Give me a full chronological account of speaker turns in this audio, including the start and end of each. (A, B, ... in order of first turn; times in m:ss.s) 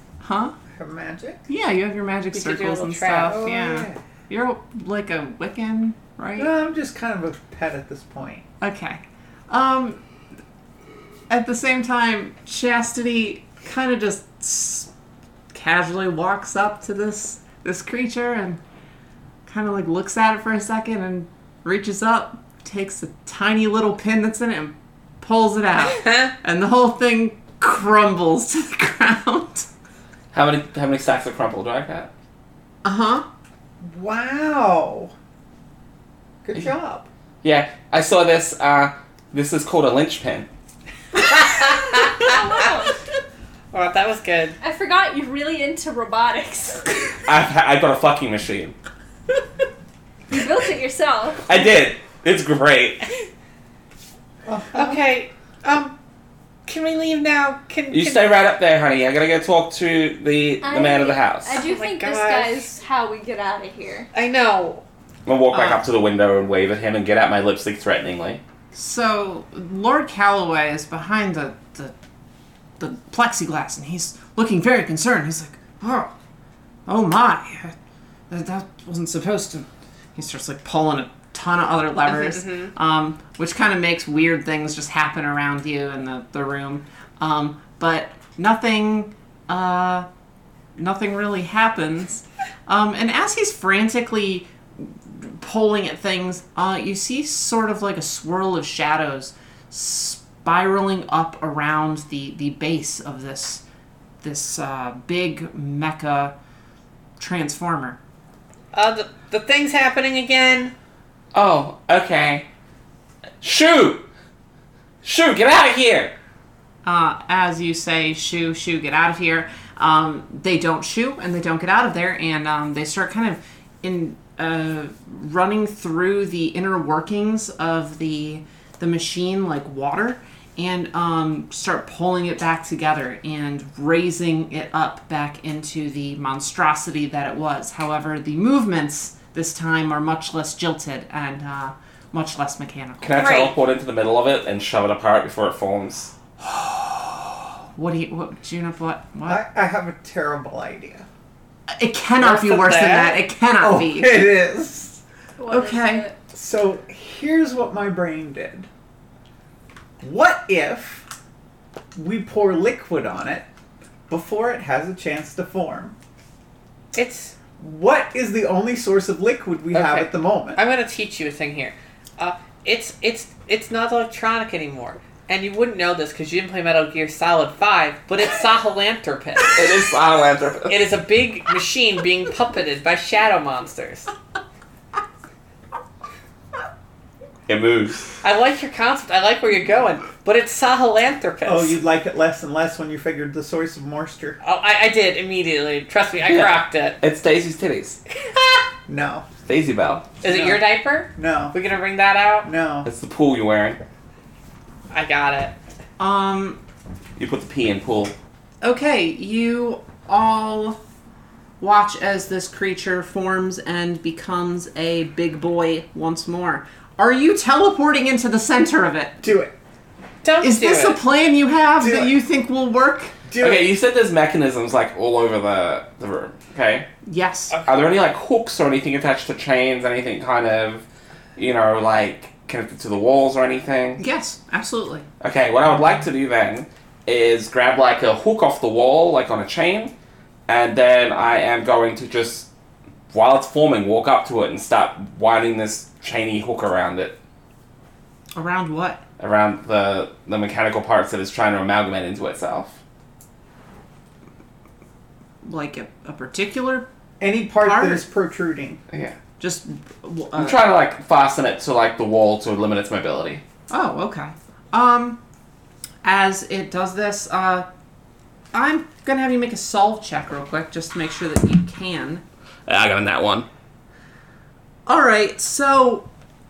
0:00.2-0:00.5 A
0:00.7-0:01.4 B
0:01.5-0:06.5 A
0:02.3-0:03.4 C
0:03.2-0:04.0 B
0:06.4-0:08.4 B
0:08.6-0:10.0 A
0:11.3-0:14.9 A
0:15.5-0:18.6 A
0:19.5-0:29.7 A
0:25.8-0:26.3 C
0:30.3-0:32.1 D
0:32.8-0:33.2 A
0:33.8-0:35.1 B
0:36.4-0:37.1 B
0:37.4-0:40.5 D
0:42.2-0:43.0 E
0:43.7-0:44.6 C
0:44.6-0:46.9 E
0:47.3-0:48.7 D
0:50.3-0:51.5 E
0:51.4-0:53.0 D
0:54.4-0:55.0 B
0:54.7-0:56.0 C
0:56.6-0:58.4 C
0:57.9-1:01.6 D
1:00.6-1:04.1 E
1:01.5-1:02.7 C
1:04.1-1:04.8 C
1:05.2-1:08.4 D
1:08.7-1:11.9 A
1:12.8-1:16.1 A
1:16.9-1:17.7 A
1:18.3-1:30.1 A
1:22.1-1:22.7 C
1:30.8-1:43.6 A
1:44.2-1:46.3 A
1:47.2-1:48.0 A
1:48.7-1:50.7 C
1:51.3-1:52.5 D
1:53.4-1:54.0 D
1:55.0-1:56.1 D
1:56.8-2:23.2 A
2:23.0-2:26.1 D
2:23.2-2:23.5 E
2:26.4-2:27.1 A
2:27.7-2:29.4 A
2:29.3-2:31.0 B
2:31.7-2:34.3 A
2:32.2-2:33.2 C
2:33.6-2:35.0 B
2:35.4-2:36.2 E
2:35.5-2:36.1 A
2:36.3-2:38.7 B
2:40.0-2:41.1 B
2:41.9-2:43.4 B
2:44.1-2:46.0 B
2:46.9-2:47.4 C
2:47.6-2:50.6 B
2:49.7-2:59.7 C
2:59.5-3:01.0 D
3:00.7-3:04.1 C
3:07.5-3:08.1 D
3:08.2-3:11.8 C
3:11.4-3:14.4 B
3:14.4-3:17.0 C
3:16.2-3:18.0 D
3:18.2-3:18.6 C
3:18.9-3:19.3 B
3:19.4-3:20.2 D
3:20.2-3:22.5 C
3:20.2-3:21.6 B
3:22.4-3:22.9 B
3:22.8-3:23.8 D
3:24.9-3:25.5 C
3:26.0-3:26.6 A
3:27.2-3:28.1 D
3:28.6-3:30.8 A
3:31.6-3:39.2 A
3:39.2-3:39.5 B
3:40.2-3:41.0 C
3:40.4-3:43.1 A
3:41.8-3:42.2 B
3:43.3-3:43.7 B
3:43.4-3:46.9 D
3:47.0-3:47.6 A
3:47.5-3:47.9 C
3:47.6-3:50.8 D
3:51.4-3:54.0 D
3:54.0-3:55.0 A
3:55.2-3:59.9 D
4:00.5-4:02.5 D
4:03.1-4:07.2 D
4:08.3-4:09.0 A
4:09.2-4:12.8 D
4:15.4-4:16.9 A
4:17.2-4:18.8 B
4:17.6-4:18.1 A
4:18.9-4:19.2 D
4:19.4-4:20.7 A
4:20.4-4:23.4 D
4:23.7-4:25.2 A
4:26.0-4:27.7 A
4:28.5-4:32.2 A
4:32.6-4:33.5 D
4:34.8-4:36.1 A